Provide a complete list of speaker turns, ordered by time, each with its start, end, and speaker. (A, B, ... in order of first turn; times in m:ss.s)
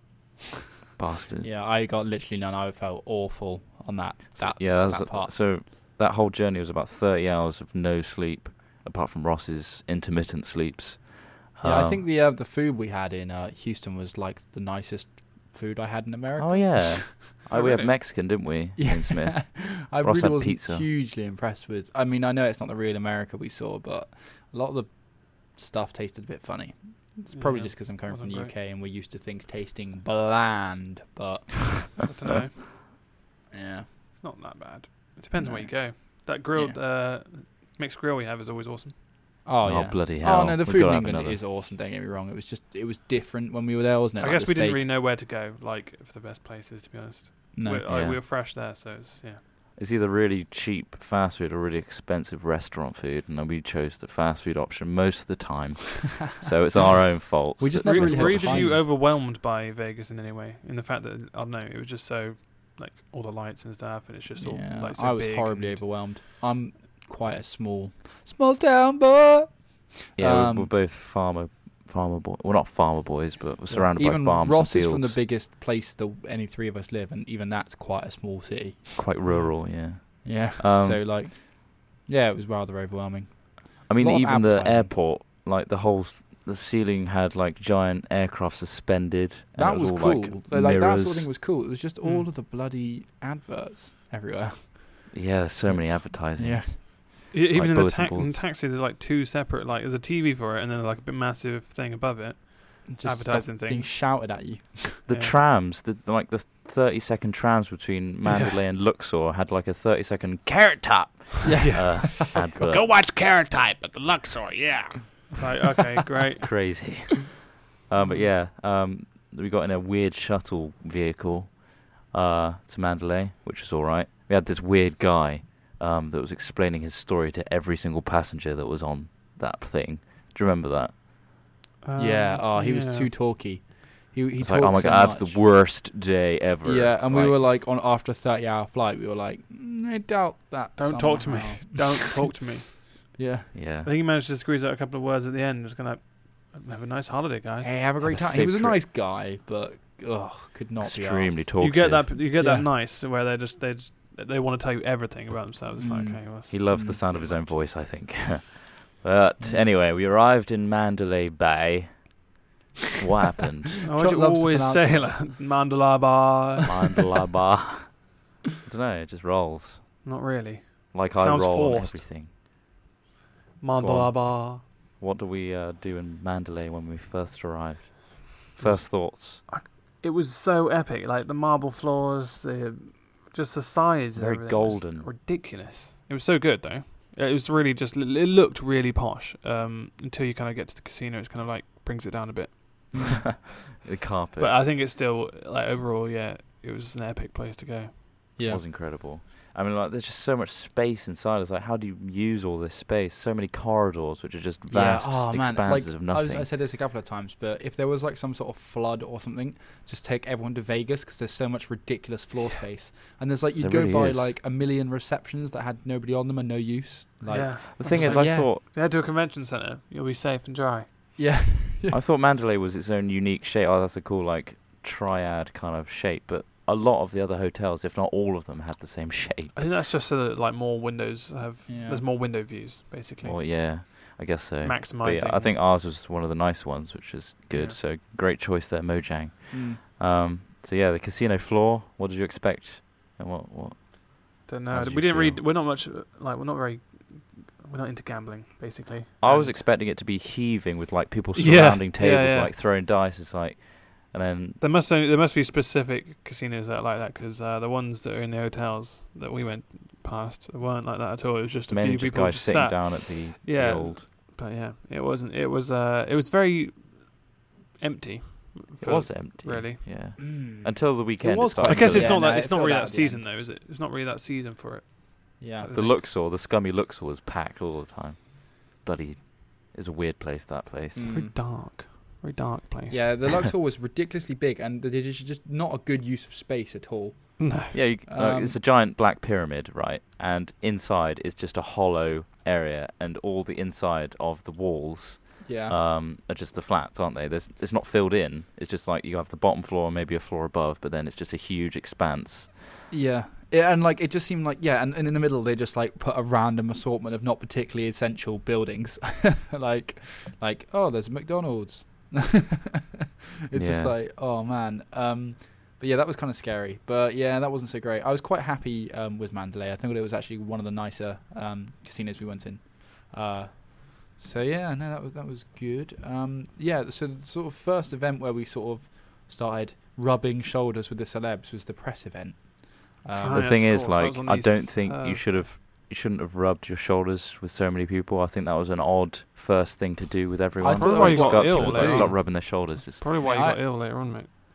0:01.0-0:01.5 A
0:01.4-0:05.4 B
0:04.4-0:12.0 A
0:11.6-0:17.1 B
0:16.4-0:20.9 A
0:17.4-0:17.9 C
0:18.8-0:32.0 B
0:27.3-0:28.5 C
0:32.0-0:32.6 C
0:33.5-0:33.9 B
0:34.2-0:39.0 C
0:35.4-0:36.8 B
0:39.4-0:44.9 B
0:39.6-0:41.5 A
0:44.2-0:49.4 C
0:47.5-0:48.1 B
0:47.9-0:48.2 A
0:49.8-0:58.8 A
0:57.0-0:58.8 B
0:57.8-1:05.8 C
1:04.4-1:10.7 B
1:10.2-1:15.2 A
1:13.7-1:19.4 B
1:19.0-1:21.2 A
1:19.2-1:19.5 C
1:20.2-1:25.0 B
1:23.9-1:31.3 A
1:29.6-1:35.1 B
1:32.0-1:32.3 C
1:35.1-1:38.4 A
1:35.6-1:36.8 B
1:37.3-1:43.9 C
1:42.9-1:45.0 B
1:45.1-1:52.8 A
1:45.1-1:45.4 C
1:48.3-1:48.6 C
1:51.4-1:52.6 B
1:51.6-1:52.1 C
1:52.6-1:55.4 D
1:55.3-1:56.9 C
1:56.4-2:11.0 A
2:11.8-2:13.1 C
2:12.0-2:15.5 B
2:14.4-2:17.4 A
2:16.6-2:22.1 B
2:20.8-2:23.2 C
2:23.1-2:23.5 B
2:23.5-2:23.9 A
2:23.8-2:27.8 C
2:27.6-2:31.6 B
2:28.0-2:28.8 A
2:30.8-2:32.2 A
2:31.6-2:37.6 C
2:32.4-2:32.7 B
2:35.8-2:37.0 B
2:36.5-2:42.2 A
2:39.4-2:39.6 B
2:43.0-2:43.7 A
2:43.8-2:47.0 C
2:43.9-2:45.3 B
2:46.7-2:49.9 A
2:50.0-2:52.1 C
2:50.9-2:52.3 A
2:53.6-2:54.6 C
2:53.8-2:59.4 A
2:58.6-3:13.2 C
3:04.2-3:05.1 A
3:12.9-3:13.2 B
3:13.2-3:14.6 A
3:14.4-3:18.0 C
3:18.4-3:18.6 B
3:18.5-3:26.5 A
3:24.7-3:38.5 B
3:33.6-3:34.4 A
3:37.3-3:40.9 C
3:37.8-3:38.6 A
3:41.2-3:42.0 B
3:41.9-3:49.7 A
3:49.6-3:53.4 C
3:51.7-3:52.0 B
3:53.2-4:05.4 A
3:54.6-3:55.6 C
3:57.5-3:57.8 C
3:59.5-3:59.8 B
4:04.5-4:09.6 C
4:09.2-4:14.6 A
4:11.4-4:12.6 C
4:14.6-4:29.8 C
4:21.7-4:24.0 A
4:28.8-4:32.2 A
4:30.2-4:33.2 B
4:31.6-4:36.0 C
4:35.4-4:35.7 B
4:35.7-4:41.1 A
4:40.9-4:41.4 B
4:41.0-4:43.3 C
4:42.9-4:48.6 B
4:47.4-4:47.7 C
4:47.7-5:02.7 A
4:55.4-4:55.8 B
5:02.9-5:33.5 B
5:13.5-5:14.0 A
5:33.1-5:35.3 C
5:33.3-5:43.1 A
5:40.6-5:42.3 B
5:40.8-5:44.3 C
5:43.2-5:43.6 B